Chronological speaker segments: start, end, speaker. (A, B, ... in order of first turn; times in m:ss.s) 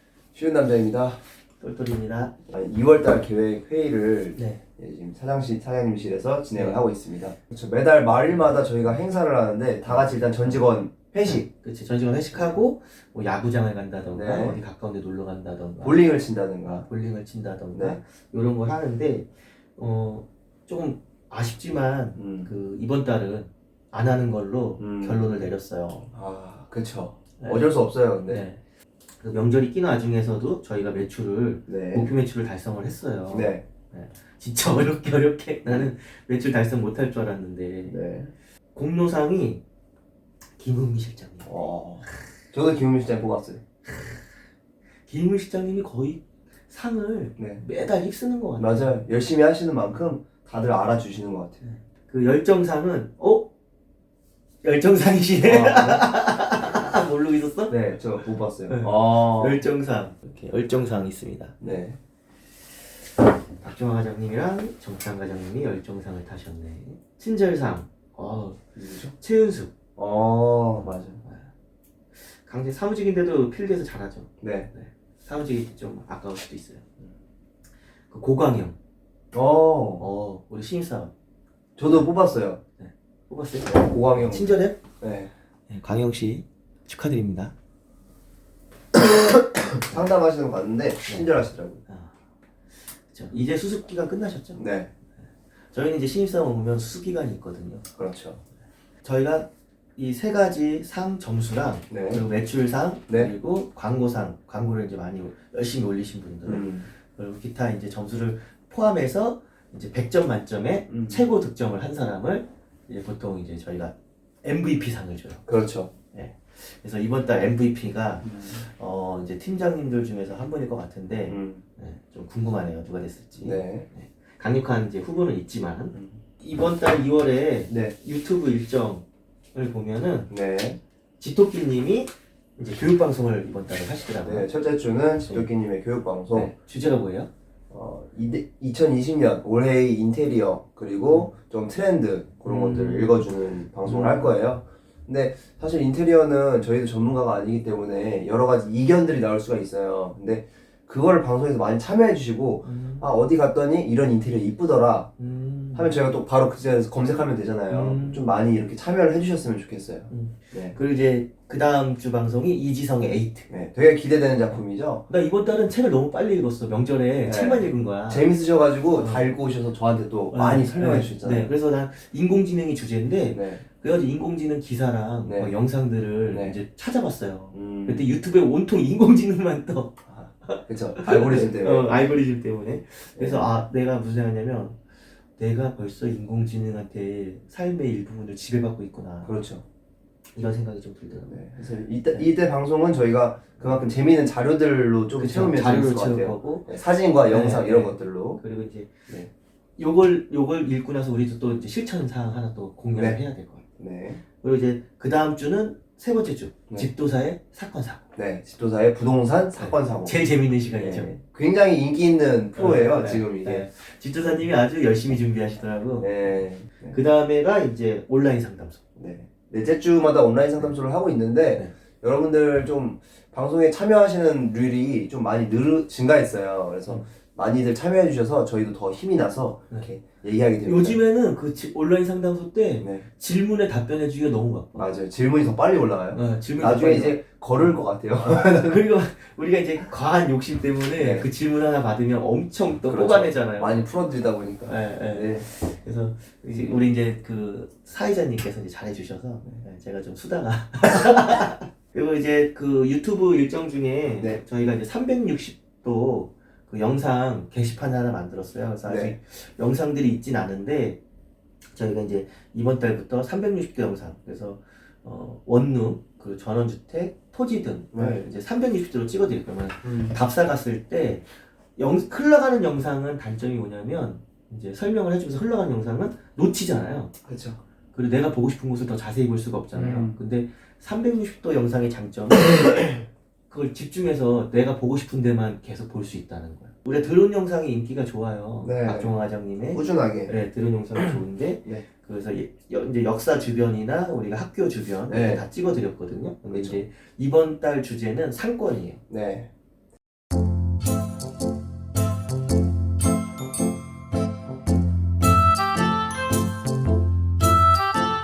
0:00.3-0:01.2 A
0:01.6-0:02.4 B
0:02.5-0:11.5 A
0:04.4-0:04.6 B
0:06.5-0:06.8 B
0:08.3-0:08.9 B
0:09.8-0:10.6 B
0:11.2-0:16.0 B
0:12.3-0:12.6 A
0:14.1-0:14.6 A
0:15.8-0:16.8 A
0:16.8-0:26.1 B
0:17.7-0:18.0 A
0:22.2-0:22.5 A
0:24.8-0:25.2 A
0:26.1-0:28.5 A
0:27.4-0:27.7 B
0:28.3-0:28.6 B
0:29.2-0:38.0 B
0:31.7-0:32.1 A
0:33.3-0:33.6 A
0:37.9-0:38.3 A
0:38.7-0:39.6 B
0:40.6-0:41.5 B
0:41.4-0:43.6 A
0:43.9-0:44.2 B
0:45.1-0:48.9 B
0:47.4-0:47.6 A
0:48.6-0:51.6 A
0:51.6-0:53.5 B
0:54.6-1:01.6 B
0:55.4-0:56.1 A
0:57.7-0:59.6 A
1:01.6-1:02.0 A
1:03.6-1:09.7 B
1:08.8-1:09.1 A
1:10.0-1:11.2 A
1:11.2-1:11.5 B
1:12.2-1:16.8 B
1:14.4-1:14.7 A
1:18.1-1:18.8 B
1:19.3-1:20.1 A
1:20.0-1:21.1 B
1:21.8-1:22.6 A
1:22.8-1:24.8 B
1:23.7-1:25.3 A
1:25.7-1:27.5 B
1:28.9-1:31.8 A
1:31.1-1:31.3 B
1:33.1-1:34.7 B
1:34.6-1:34.9 A
1:35.7-1:37.8 B
1:38.0-1:38.4 A
1:39.0-1:55.4 B
1:41.9-1:42.2 A
1:46.5-1:46.9 A
1:50.9-1:51.2 A
1:55.5-1:55.9 A
1:56.1-2:10.3 B
1:58.2-1:58.6 A
2:01.3-2:01.6 A
2:03.4-2:03.9 A
2:05.9-2:06.2 A
2:07.7-2:08.0 A
2:10.3-2:10.8 A
2:11.2-2:14.5 B
2:14.2-2:16.5 A
2:15.2-2:15.5 B
2:16.3-2:17.3 B
2:17.7-2:35.1 A
2:22.4-2:23.3 B
2:23.8-2:24.3 B
2:32.6-2:33.1 B
2:35.2-2:36.0 B
2:35.7-2:40.8 A
2:37.7-2:38.3 B
2:40.1-2:43.5 B
2:43.5-2:45.0 A
2:45.1-2:48.3 B
2:47.2-2:51.5 A
2:49.0-2:49.3 B
2:50.3-3:04.8 B
2:53.3-2:53.6 A
2:55.2-2:55.5 A
2:56.3-2:56.6 A
2:57.5-2:58.1 A
3:00.1-3:01.9 A
3:03.2-3:03.5 A
3:05.4-3:09.3 B
3:09.2-3:09.6 A
3:10.4-3:11.4 B
3:11.3-3:18.4 A
3:15.1-3:18.9 B
3:19.8-3:23.6 B
3:23.8-3:24.2 A
3:24.4-3:28.0 B
3:28.2-3:30.2 A
3:29.6-3:31.2 B
3:30.8-3:33.7 A
3:32.6-3:38.8 B
3:36.0-3:37.0 A
3:39.0-3:51.0 A
3:50.6-3:54.9 B
3:54.8-3:58.8 A
3:56.1-4:03.9 B
4:01.0-4:01.3 A
4:02.9-4:05.5 A
4:04.7-4:21.0 B
4:18.8-4:19.1 A
4:21.7-4:31.2 B
4:27.9-4:28.3 A
4:29.8-4:30.2 A
4:31.8-4:37.1 B
4:37.2-4:37.6 A
4:37.9-4:42.9 B
4:39.7-4:40.2 A
4:43.5-4:59.0 B
4:48.6-4:49.1 A
4:49.7-4:50.3 A
4:55.1-4:55.4 A
4:56.5-4:56.8 A
4:59.1-4:59.5 A